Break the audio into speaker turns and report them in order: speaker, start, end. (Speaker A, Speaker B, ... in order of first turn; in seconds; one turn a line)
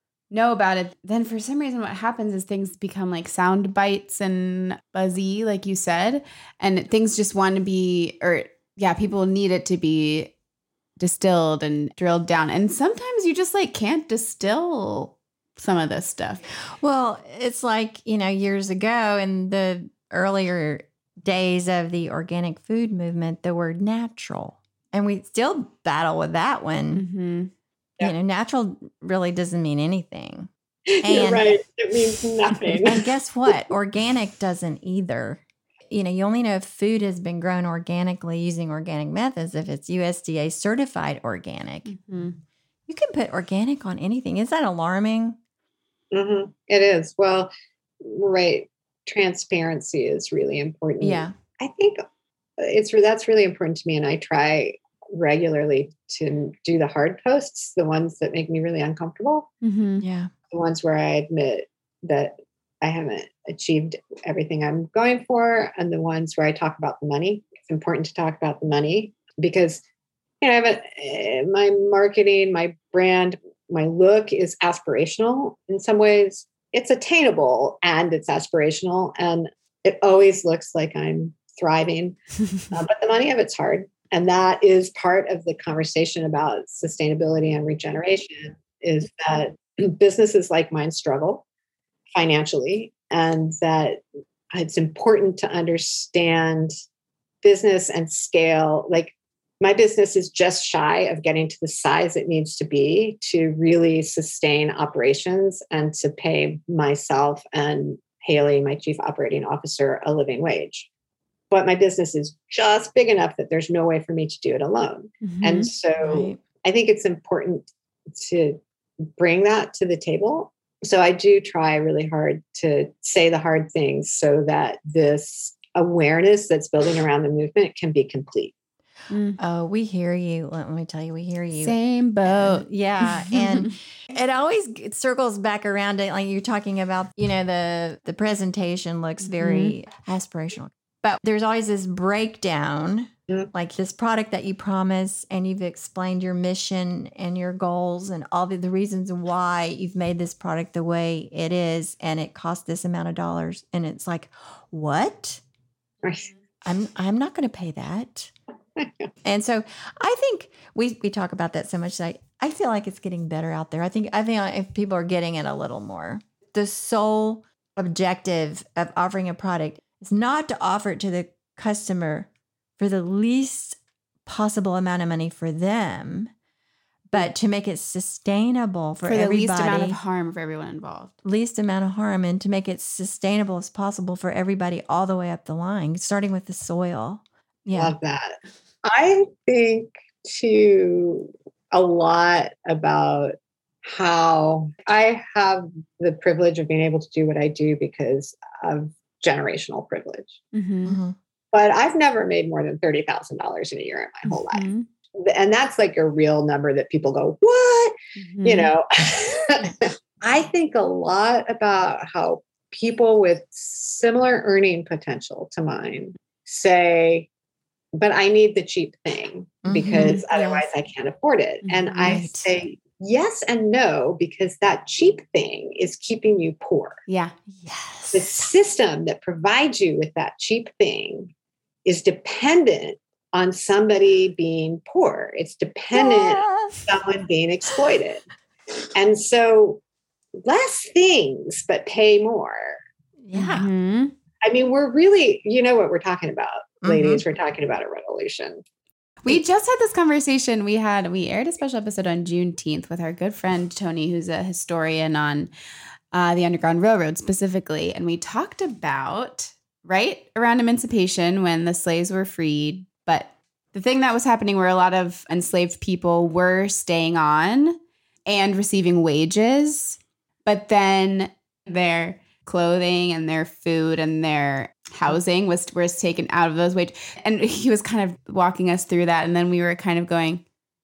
Speaker A: 0.3-10.3
Speaker A: 11.0-16.4
Speaker B: 16.8-27.0
Speaker A: 26.9-27.5
Speaker B: 28.0-30.5
Speaker C: 30.9-33.0
Speaker B: 31.0-31.4
Speaker B: 32.7-41.9
Speaker A: 41.9-42.4
Speaker B: 42.9-45.4
Speaker C: 46.1-52.0
Speaker B: 51.0-51.3
Speaker C: 52.6-59.5
Speaker A: 59.6-60.0
Speaker B: 60.0-60.3
Speaker C: 60.5-69.8
Speaker C: 70.4-91.4
Speaker C: 92.1-94.0
Speaker C: 94.5-96.7
Speaker C: 97.4-110.9
Speaker C: 111.5-128.5
Speaker A: 115.2-115.7
Speaker B: 116.0-116.4
Speaker A: 129.1-129.4
Speaker B: 129.4-155.4
Speaker A: 131.6-133.7
Speaker A: 139.2-139.8
Speaker C: 156.0-156.3
Speaker B: 156.6-158.3
Speaker C: 158.8-159.1
Speaker B: 159.2-176.3
Speaker B: 177.1-180.0
Speaker A: 179.0-181.1
Speaker B: 181.2-187.9
Speaker C: 187.7-200.3
Speaker A: 200.5-201.0
Speaker B: 200.8-201.2
Speaker C: 201.5-217.3
Speaker A: 204.5-204.9
Speaker A: 208.2-208.7
Speaker C: 217.9-227.0
Speaker B: 219.6-220.7
Speaker A: 221.6-222.2
Speaker B: 222.0-222.5
Speaker A: 227.1-227.3
Speaker B: 227.6-228.5
Speaker C: 228.1-231.3
Speaker C: 231.8-238.2
Speaker B: 235.9-236.8
Speaker C: 238.9-239.8
Speaker C: 240.4-242.8
Speaker B: 243.2-243.7
Speaker A: 243.3-244.1
Speaker C: 244.4-248.6
Speaker B: 246.8-247.2
Speaker A: 249.2-255.5
Speaker A: 256.1-280.4